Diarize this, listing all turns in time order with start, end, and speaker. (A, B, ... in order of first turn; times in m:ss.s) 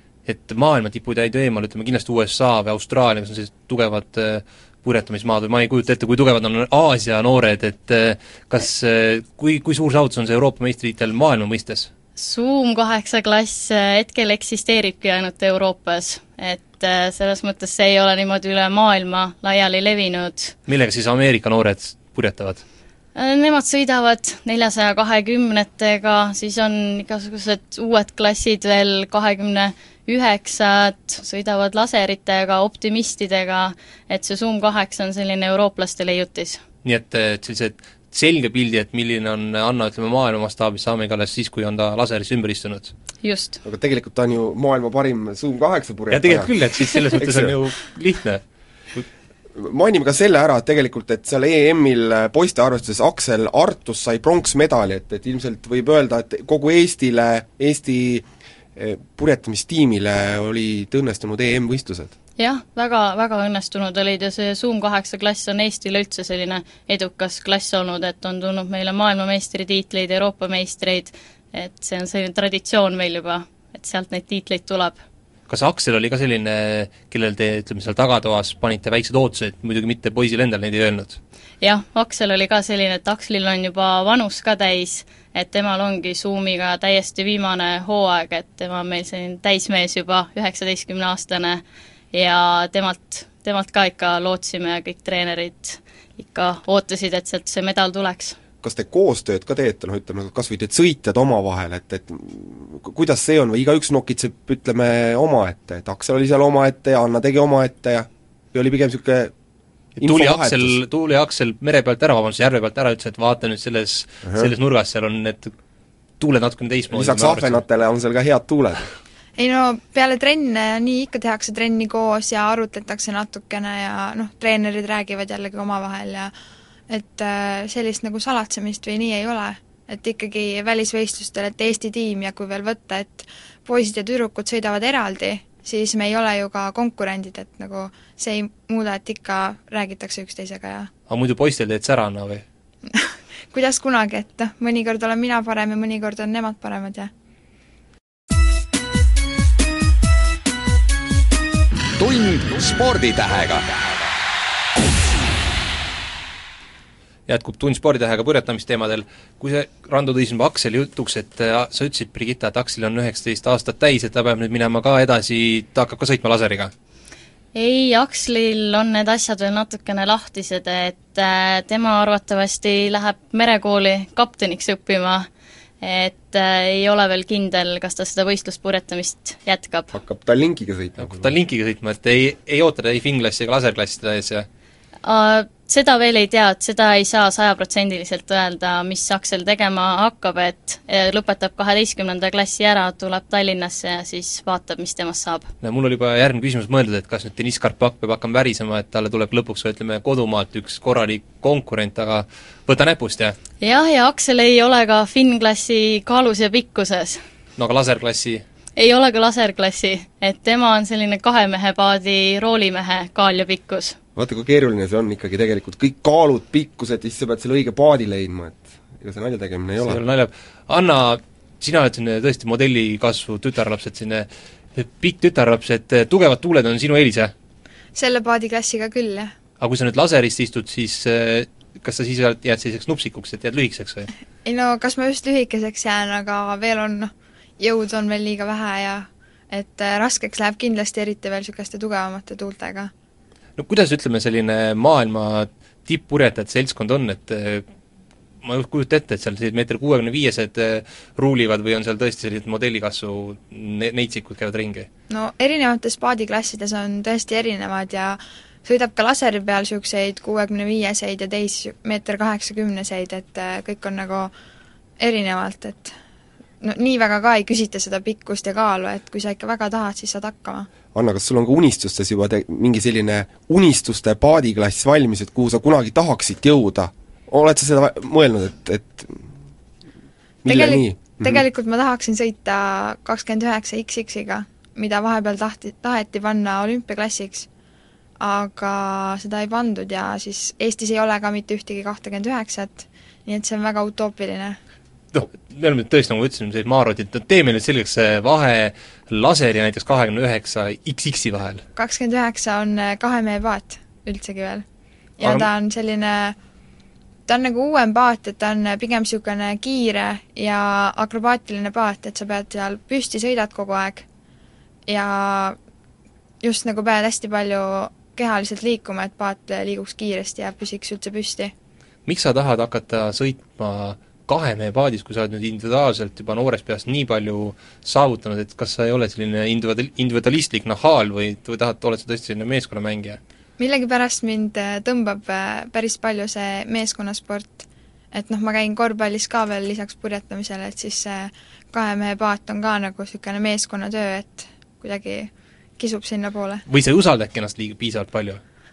0:00.2-0:11.9 A
0:12.2-0:20.6 B
0:20.7-0:22.6 A
0:23.2-0:36.6 B
0:36.8-0:42.9 A
0:43.2-0:43.6 B
0:43.6-0:47.5 C
0:46.1-0:48.4 A
0:49.6-1:02.1 C
1:02.4-1:15.0 B
1:15.5-1:21.2 A
1:21.6-1:38.4 B
1:38.6-1:49.3 C
1:50.0-1:55.5 A
1:50.0-1:50.8 C
1:54.3-1:54.5 C
1:56.2-1:57.6 A
1:56.9-1:58.9 C
1:59.4-2:06.3 D
2:06.9-2:20.9 D
2:21.1-2:22.4 A
2:22.9-2:27.1 D
2:32.0-2:34.1 E
2:37.3-2:46.7 A
2:47.5-2:55.3 B
2:55.8-2:59.9 B
2:59.9-3:01.3 C
3:01.0-3:04.5 A
3:05.0-3:15.5 B
3:15.6-3:23.4 A
3:23.6-3:27.2 B
3:27.6-3:28.4 A
3:28.8-3:34.0 B
3:34.2-3:40.0 C
3:39.8-3:47.3 A
3:48.0-3:49.3 D
3:49.6-3:54.1 A
3:54.4-4:02.9 D
4:03.6-4:07.6 A
4:08.4-4:14.9 A
4:15.1-4:24.3 D
4:25.0-4:25.9 D
4:26.6-4:30.7 D
4:30.9-4:39.3 C
4:40.4-4:41.4 C
4:40.5-4:47.5 D
4:48.2-4:54.6 D
4:55.1-5:01.6 A
5:01.8-5:04.6 D
5:05.2-5:06.4 D
5:05.2-5:05.5 A
5:07.3-5:14.0 D
5:14.9-5:15.6 D
5:16.4-5:21.5 D
5:22.1-5:33.2 A
5:33.6-5:46.6 D
5:46.7-5:48.4 A